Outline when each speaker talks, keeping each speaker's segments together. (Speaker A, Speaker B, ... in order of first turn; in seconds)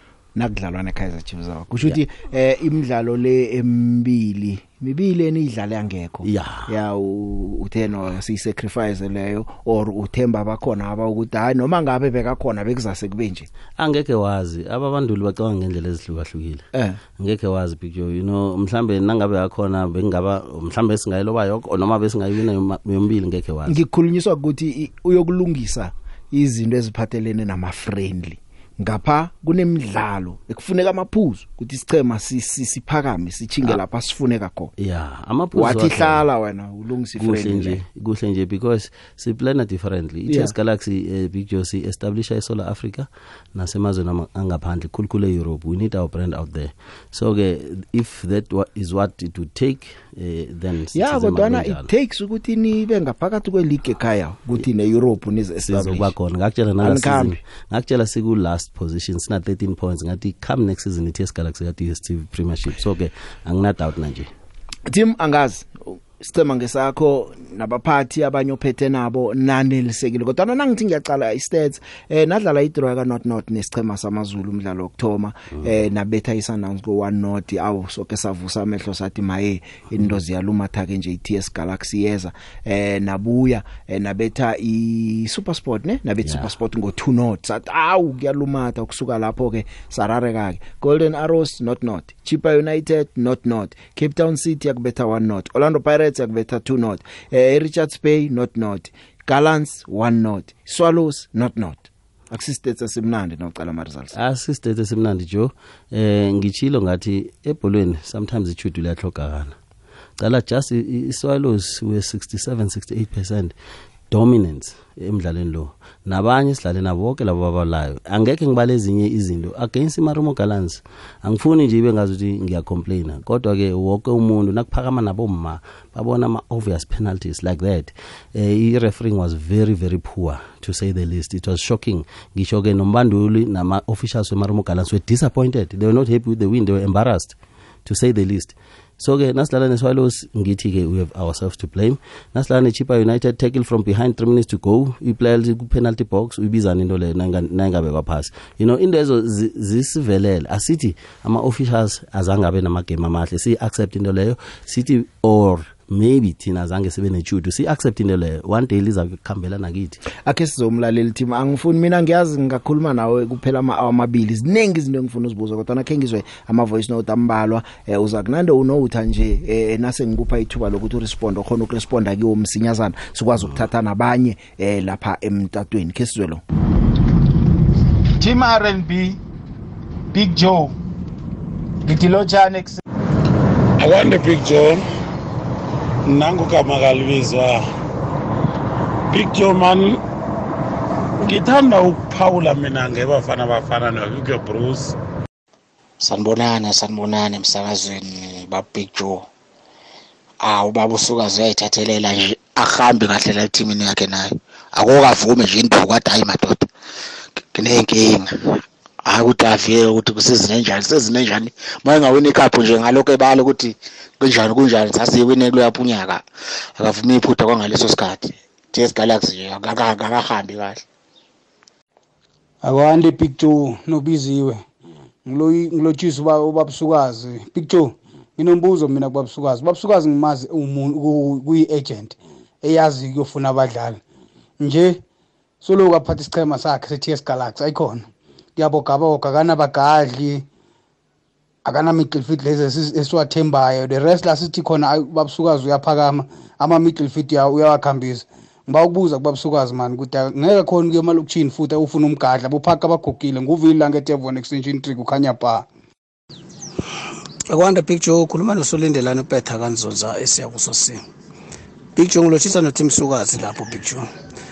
Speaker A: 0.3-13.5, 16.7-17.0, 23.7-34.7, 35.5-37.8, 40.3-40.5, 51.0-56.1, 56.8-57.4, 64.9-104.2, 160.2-176.4
Speaker B: 6.2-6.7, 13.8-16.6, 17.2-23.8, 34.8-36.2, 37.2-51.9, 55.7-64.3, 86.2-86.5, 104.1-109.6, 110.2-113.5, 114.1-160.0
Speaker C: 183.8-184.6, 193.1-194.9
Speaker D: 196.0-199.3, 200.4-206.7, 207.5-208.3, 209.1-220.8
Speaker E: 222.6-224.6, 225.3-234.0, 234.6-235.0, 235.6-238.1, 238.6-240.5, 241.6-255.7
Speaker F: 257.5-261.0, 262.0-264.1